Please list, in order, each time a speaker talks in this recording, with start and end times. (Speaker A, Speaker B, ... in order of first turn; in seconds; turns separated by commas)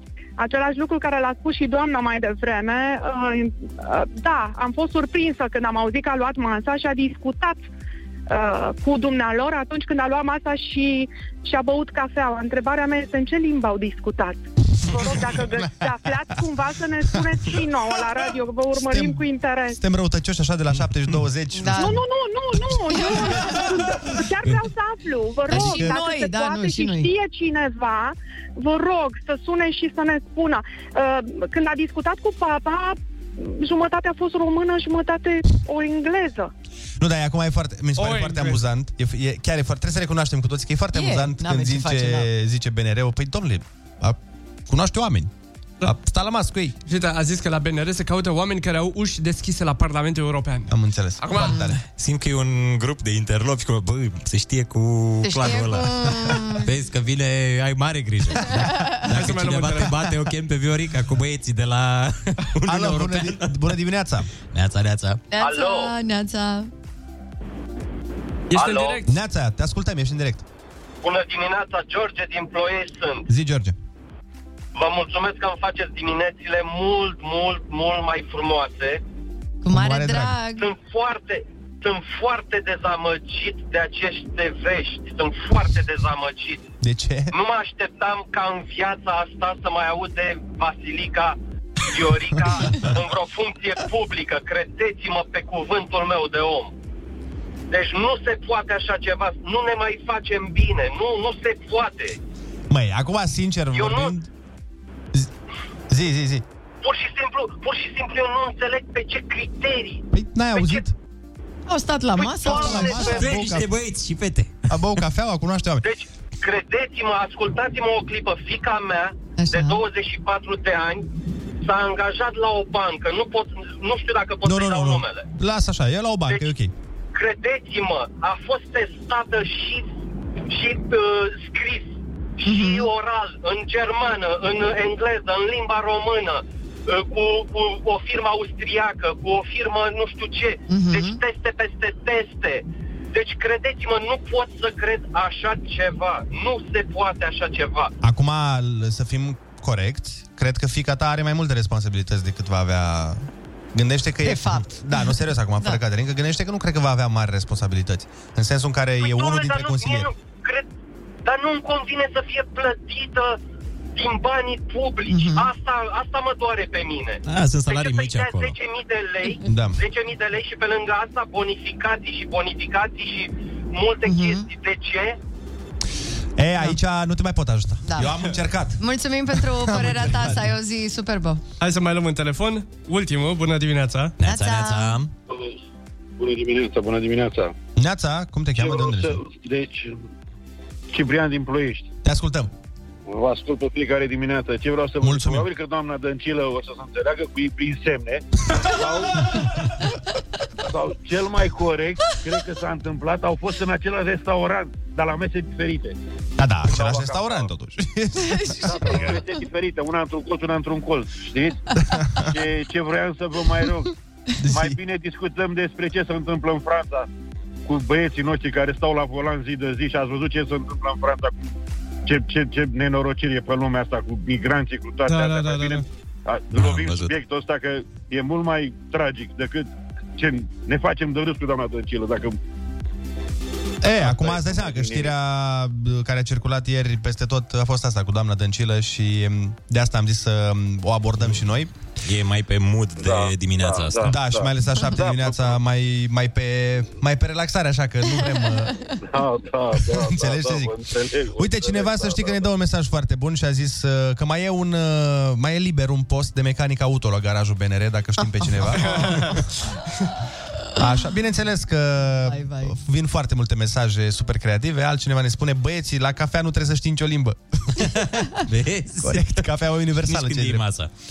Speaker A: 0.4-7.6, Speaker A: 8.3-19.8, Speaker B: 18.9-19.2, Speaker B: 19.8-22.0, Speaker C: 21.5-22.0, Speaker A: 21.8-36.5, Speaker C: 23.0-23.6, Speaker C: 25.5-27.1, Speaker B: 25.5-25.9, Speaker B: 37.0-45.3, Speaker D: 38.0-38.6, Speaker C: 40.9-42.3, Speaker B: 45.8-46.7, Speaker D: 46.9-51.6, Speaker B: 50.7-51.8, Speaker E: 52.0-63.6, Speaker C: 55.2-56.6, Speaker D: 59.1-59.9, Speaker B: 62.6-64.3, Speaker E: 64.5-65.2, Speaker C: 65.3-66.7, Speaker F: 65.4-65.9, Speaker D: 68.5-69.1, Speaker F: 68.5-69.0, Speaker B: 69.0-70.4, Speaker F: 71.0-73.3, Speaker B: 73.3-73.7, Speaker F: 74.8-79.0, Speaker C: 79.6-80.7, Speaker B: 79.7-80.4, Speaker F: 80.6-86.7, Speaker B: 86.8-87.3, Speaker F: 87.3-91.4, Speaker F: 91.9-96.7, Speaker F: 97.7-102.2, Speaker B: 102.7-104.3, Speaker F: 103.7-104.1, Speaker B: 105.9-106.4, Speaker F: 106.8-110.8, Speaker B: 110.1-110.9, Speaker C: 111.7-113.2, Speaker F: 112.2-113.2, Speaker B: 112.4-113.7, Speaker E: 112.9-114.5, Speaker B: 114.7-115.8, Speaker F: 115.8-121.1, Speaker C: 119.4-119.8, Speaker F: 121.6-125.2, Speaker B: 124.4-126.7, Speaker F: 126.3-126.5, Speaker F: 127.1-129.9, Speaker F: 130.5-147.9, Speaker C: 132.4-132.9, Speaker C: 140.7-141.2, Speaker B: 148.0-160.1, Speaker C: 154.2-155.8, Speaker F: 159.0-160.7, Speaker F: 161.2-163.4, Speaker F: 163.9-175.2, Speaker C: 165.1-165.5, Speaker E: 167.2-168.6, Speaker B: 169.4-169.8, Speaker C: 174.1-174.4, Speaker B: 176.4-178.8, Speaker C: 177.9-178.2, Speaker C: 178.8-181.4, Speaker B: 179.6-180.5, Speaker D: 181.6-184.1, Speaker E: 184.2-185.1, Speaker C: 184.2-185.0, Speaker G: 185.3-185.6, Speaker G: 186.2-187.6, Speaker B: 187.8-189.2, Speaker G: 188.6-190.0, Speaker G: 190.9-191.9, Speaker B: 192.0-192.5, Speaker G: 193.1-199.3, Speaker B: 195.0-195.5, Speaker G: 200.7-206.0, Speaker B: 206.4-209.2, Speaker G: 206.7-207.5, Speaker C: 208.2-209.0, Speaker G: 208.6-211.6, Speaker B: 211.9-212.3, Speaker G: 212.3-213.9, Speaker B: 214.4-214.8, Speaker G: 214.5-217.1, Speaker G: 217.7-221.5, Speaker G: 222.1-232.4, Speaker D: 225.1-225.8, Speaker E: 226.5-227.1, Speaker B: 233.8-241.7, Speaker G: 234.0-235.1, Speaker E: 242.0-244.2, Speaker G: 243.0-245.6, Speaker B: 244.0-248.8, Speaker G: 249.1-252.5, Speaker B: 249.9-250.8, Speaker B: 251.4-259.3, Speaker C: 258.9-259.3, Speaker D: 258.9-259.3, Speaker B: 260.8-267.8, Speaker C: 262.2-262.8, Speaker E: 267.9-269.5, Speaker B: 269.0-270.6, Speaker E: 270.0-270.9